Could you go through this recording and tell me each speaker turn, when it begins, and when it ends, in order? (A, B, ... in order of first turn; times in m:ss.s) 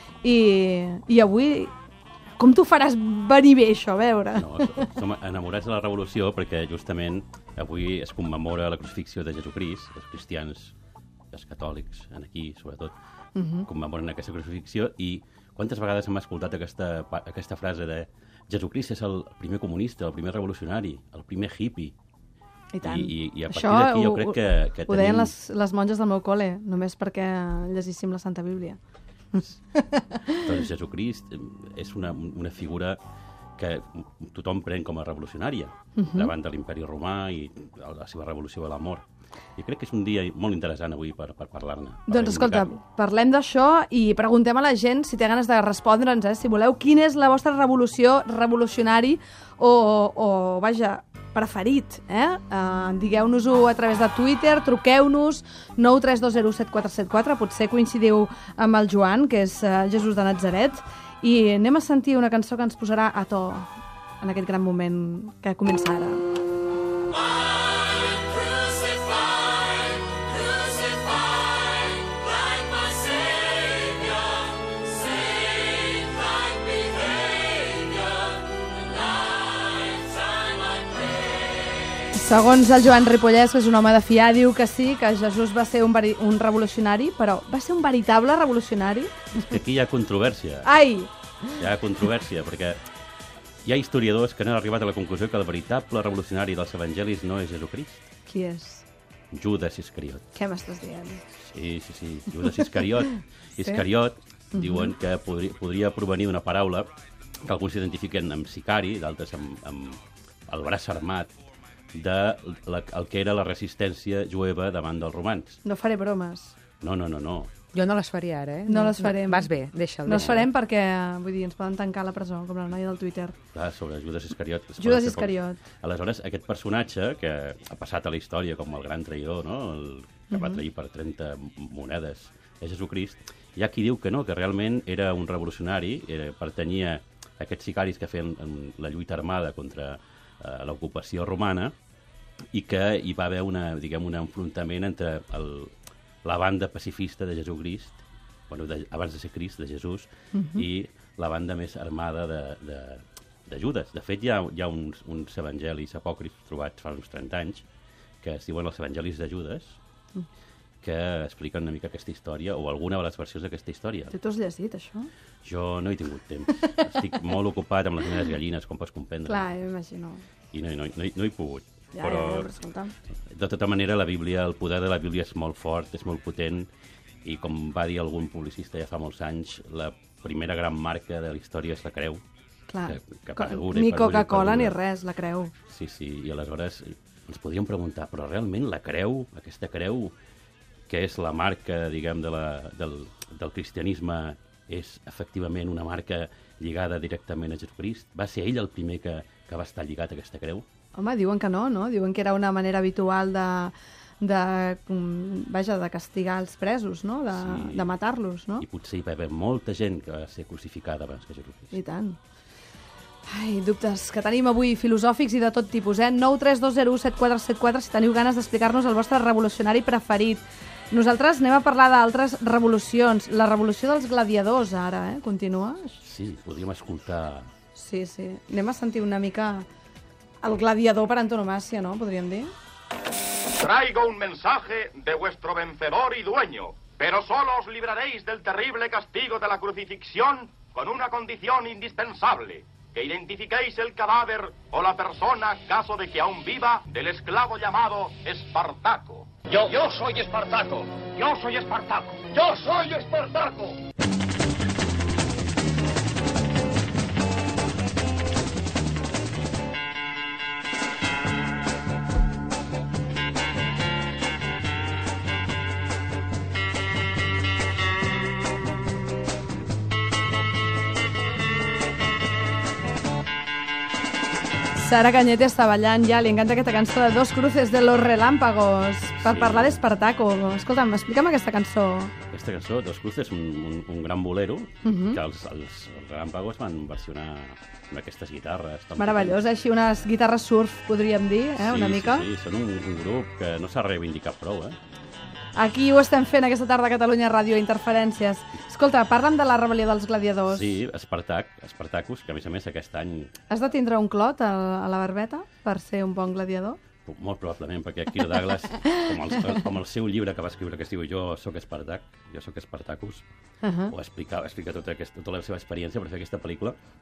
0:00.2-0:01.7 A
0:02.4-0:04.9 A
0:04.3-0:10.7 B
0:11.3-0:12.9 B
0:13.4-0:13.7 A
0:13.6-0:21.9 B
0:22.7-0:28.8 A
0:22.8-0:25.3 B
0:29.3-0:30.5 A
0:30.4-0:33.0 B
0:33.6-0:39.0 B
0:36.0-0:36.3 A
0:39.6-0:42.8 B
0:42.1-1:06.2 A
1:22.1-1:29.5 A
1:29.3-1:30.7 B
1:30.6-1:31.6 A
1:31.6-1:32.8 B
1:33.6-1:38.0 B
1:38.3-1:38.8 A
1:39.3-1:40.2 B
1:40.3-1:41.2 A
1:41.4-1:46.9 B
1:44.5-1:44.9 A
1:47.4-1:51.3 B
1:51.9-1:55.6 B
1:55.6-1:56.5 A
1:56.8-1:57.5 B
1:57.7-2:00.5 C
1:58.6-2:03.4 A
2:03.5-2:21.7 B
2:04.8-2:05.6 A
2:10.3-2:10.6 A
2:22.5-2:25.7 B
2:26.2-2:37.6 B
2:30.3-2:30.6 A
2:38.2-2:39.8 B
2:40.8-2:44.1 B
2:44.1-2:45.1 A
2:45.4-2:49.5 B
2:49.2-2:50.2 A
2:50.5-2:52.5 B
2:51.9-2:52.9 A
2:53.3-2:56.7 B
2:57.2-3:02.2 B
3:02.7-3:05.5 A
3:02.9-3:04.8 B
3:05.7-3:10.1 B
3:10.9-3:20.6 B
3:20.9-3:28.6 A
3:27.3-3:27.9 B
3:28.6-3:31.7 B
3:31.7-3:32.2 A
3:33.3-3:46.0 A
3:46.0-3:47.5 B
3:47.8-3:49.7 A
3:50.4-3:52.5 A
3:53.6-4:13.7 D
4:34.8-4:42.1 A
4:39.2-4:39.8 B
4:42.3-4:49.4 B
4:44.8-4:45.2 A
4:49.0-4:52.3 A
4:51.6-4:54.8 B
4:55.5-5:00.7 A
5:00.5-5:03.3 B
5:03.5-5:06.8 A
5:07.0-5:13.2 B
5:08.9-5:09.6 A
5:13.6-5:13.9 A
5:13.9-5:16.8 B